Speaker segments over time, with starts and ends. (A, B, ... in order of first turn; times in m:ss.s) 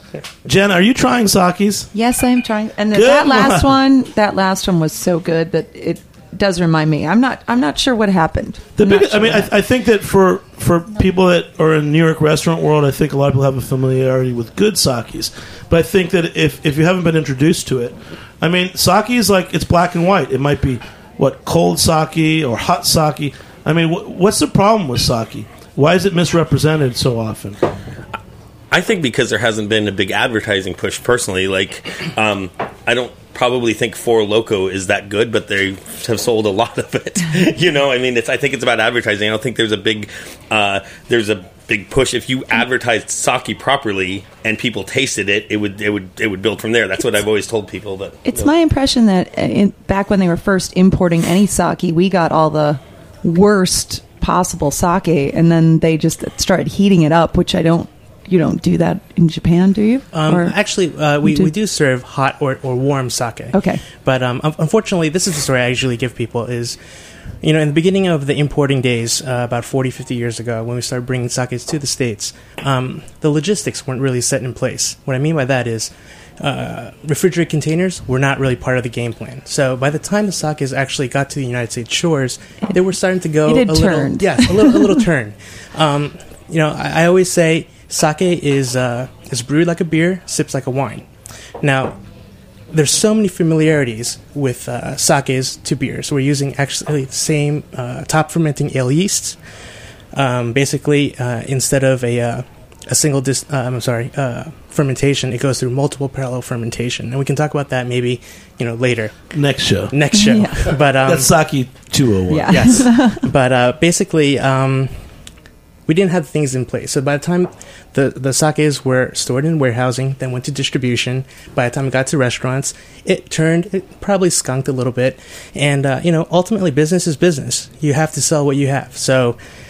0:00.4-0:01.9 A
0:01.9-0:09.4 B
0:02.9-0:03.7 A
0:08.8-0:27.6 A
0:28.7-0:48.5 C
0:48.2-1:00.6 B
1:00.1-1:06.8 D
1:01.2-1:01.5 B
1:03.5-1:03.8 B
1:07.4-1:31.1 D
1:23.4-1:25.0 B
1:31.6-1:32.0 D
1:32.7-1:39.4 D
1:40.1-1:49.3 D
1:49.3-1:50.0 A
1:49.9-1:51.7 D
1:50.2-1:50.8 B
1:50.7-1:52.9 A
1:52.3-1:53.2 B
1:52.5-1:55.1 D
1:55.9-2:09.4 D